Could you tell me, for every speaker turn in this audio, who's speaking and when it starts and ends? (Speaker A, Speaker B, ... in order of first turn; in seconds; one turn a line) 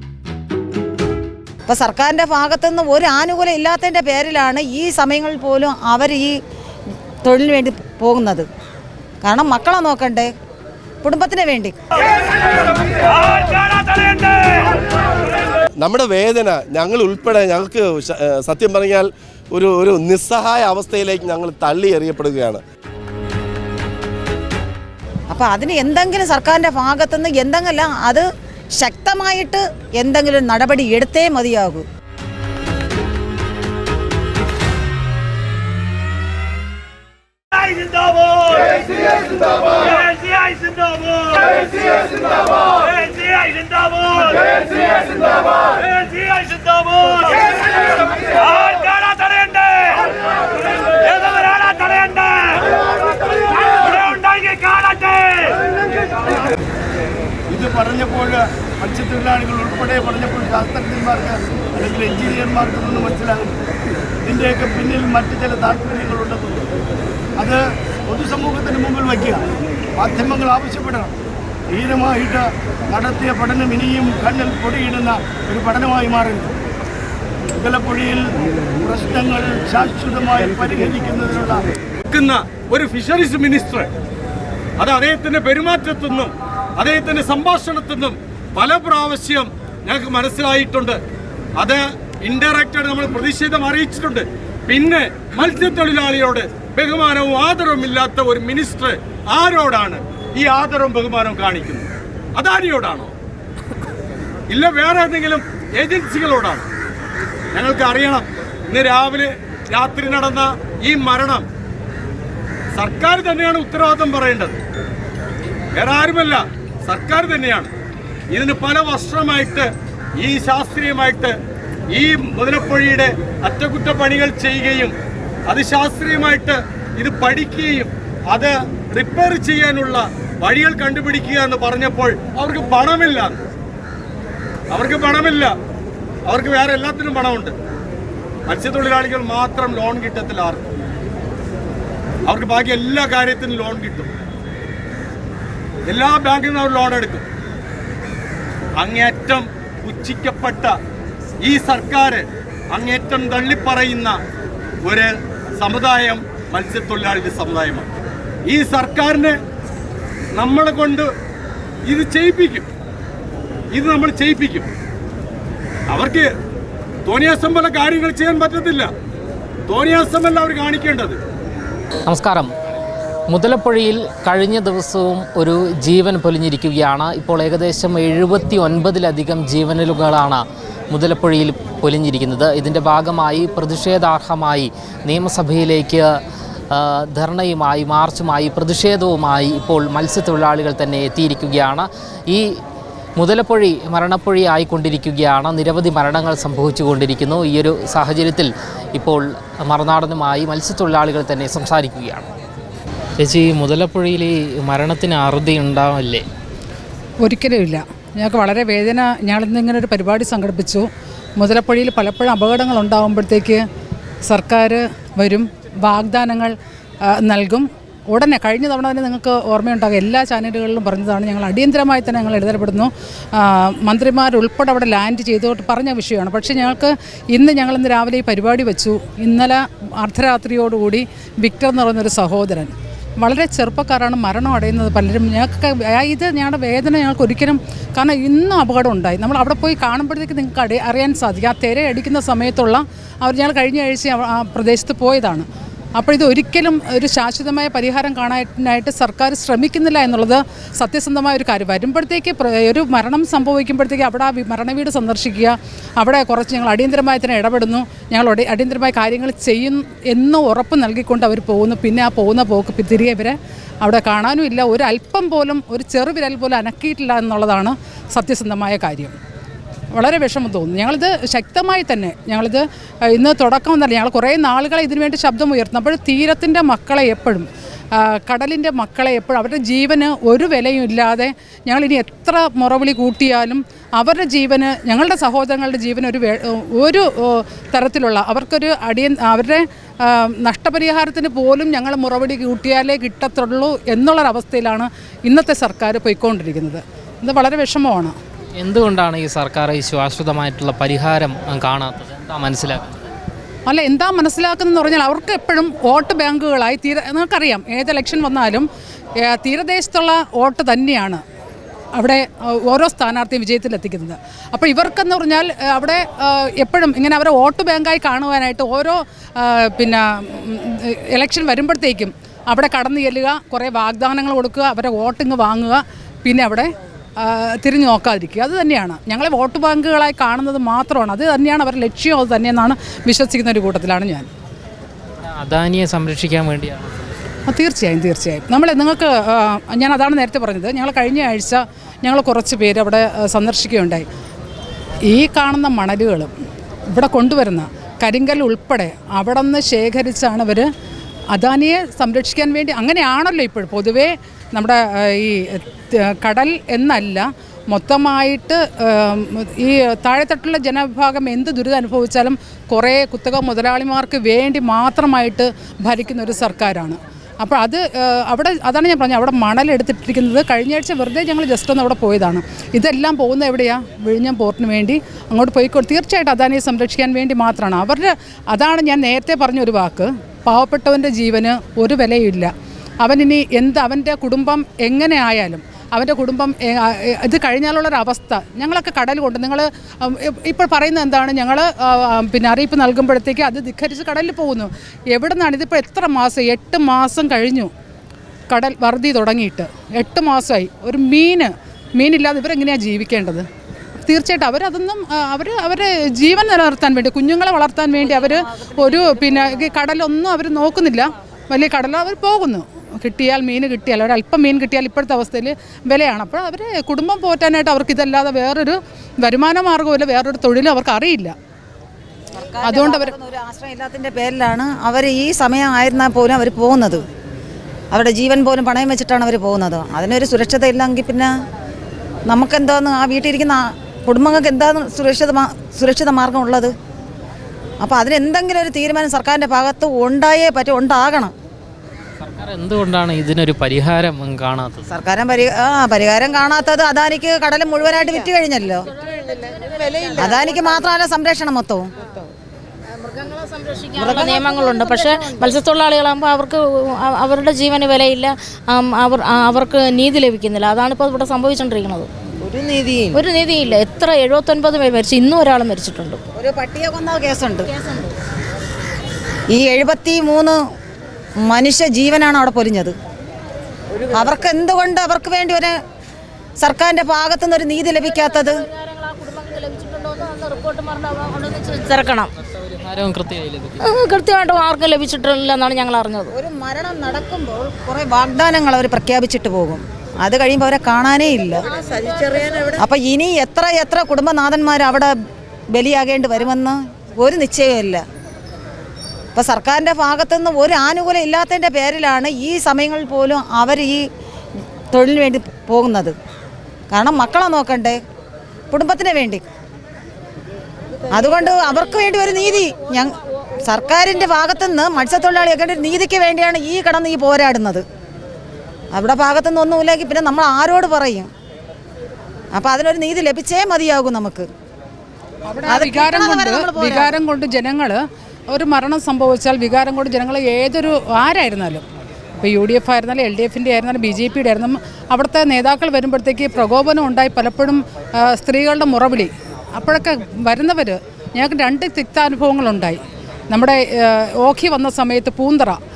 Speaker A: 1.7-6.3
Speaker A: 7.2-8.5
Speaker A: 9.2-10.3
Speaker A: 11.0-11.8
Speaker B: 15.8-22.6
Speaker A: 25.3-28.2
Speaker A: 28.8-31.8
Speaker C: 49.0-49.4
Speaker C: 51.1-52.1
Speaker C: 53.6-55.0
Speaker C: 57.5-63.5
Speaker C: 64.2-66.7
Speaker C: 67.4-69.4
Speaker C: 70.0-71.2
Speaker C: 71.7-76.5
Speaker C: 77.5-81.6
Speaker D: 82.1-83.9
Speaker D: 84.8-91.0
Speaker D: 91.6-103.1
Speaker D: 104.5-106.6
Speaker D: 107.5-111.5
Speaker D: 112.7-114.6
Speaker D: 115.7-117.7
Speaker D: 118.3-121.3
Speaker D: 121.9-124.9
Speaker D: 125.5-133.4
Speaker D: 134.7-135.6
Speaker D: 136.2-137.6
Speaker D: 138.5-140.7
Speaker D: 142.2-144.1
Speaker D: 145.9-147.2
Speaker D: 148.8-150.7
Speaker D: 151.4-154.2
Speaker D: 154.8-157.9
Speaker D: 158.5-159.4
Speaker D: 160.3-161.1
Speaker D: 161.8-162.7
Speaker D: 163.7-164.7
Speaker D: 165.9-166.3
Speaker D: 167.0-168.9
Speaker D: 169.7-171.2
Speaker E: 172.1-172.5
Speaker E: 173.3-186.0
Speaker E: 186.7-192.4
Speaker E: 193.2-202.3
Speaker E: 203.2-206.2
Speaker F: 207.2-213.6
Speaker F: 214.2-216.5
Speaker F: 217.0-269.1
Speaker F: 269.9-298.1
Speaker E: 298.6-303.1
Speaker F: 303.7-308.7
Speaker F: 309.2-311.2
Speaker F: 312.0-334.3
Speaker E: 335.4-337.1
Speaker F: 337.5-344.1
Speaker F: 345.1-346.3
Speaker F: 346.9-350.7
Speaker F: 351.3-397.7
Speaker F: 398.5-403.4
Speaker F: 404.0-421.3
Speaker A: 422.4-427.0
Speaker F: 422.6-423.1
Speaker A: 427.9-431.3
Speaker A: 432.3-436.7
Speaker A: 437.8-441.3
Speaker E: 442.2-444.9
Speaker A: 444.9-448.9
Speaker G: 449.1-450.2
Speaker A: 450.1-451.9
Speaker G: 453.1-462.1
Speaker A: 454.0-454.4
Speaker A: 462.4-463.2
Speaker G: 463.1-466.2
Speaker A: 466.4-467.7
Speaker A: 469.5-470.6
Speaker A: 471.4-472.9
Speaker A: 474.0-475.7
Speaker A: 476.6-478.6
Speaker G: 477.9-482.3
Speaker E: 482.5-483.9
Speaker G: 483.8-486.3
Speaker A: 486.3-491.7
Speaker G: 491.8-492.7
Speaker A: 492.6-495.1
Speaker A: 495.7-498.0
Speaker A: 499.3-504.0
Speaker A: 504.9-506.1
Speaker A: 506.9-508.0
Speaker A: 508.7-509.4
Speaker A: 511.1-517.8
Speaker A: 518.9-521.3
Speaker A: 522.5-524.5
Speaker F: 525.5-531.8
Speaker A: 525.7-527.1
Speaker F: 532.4-545.8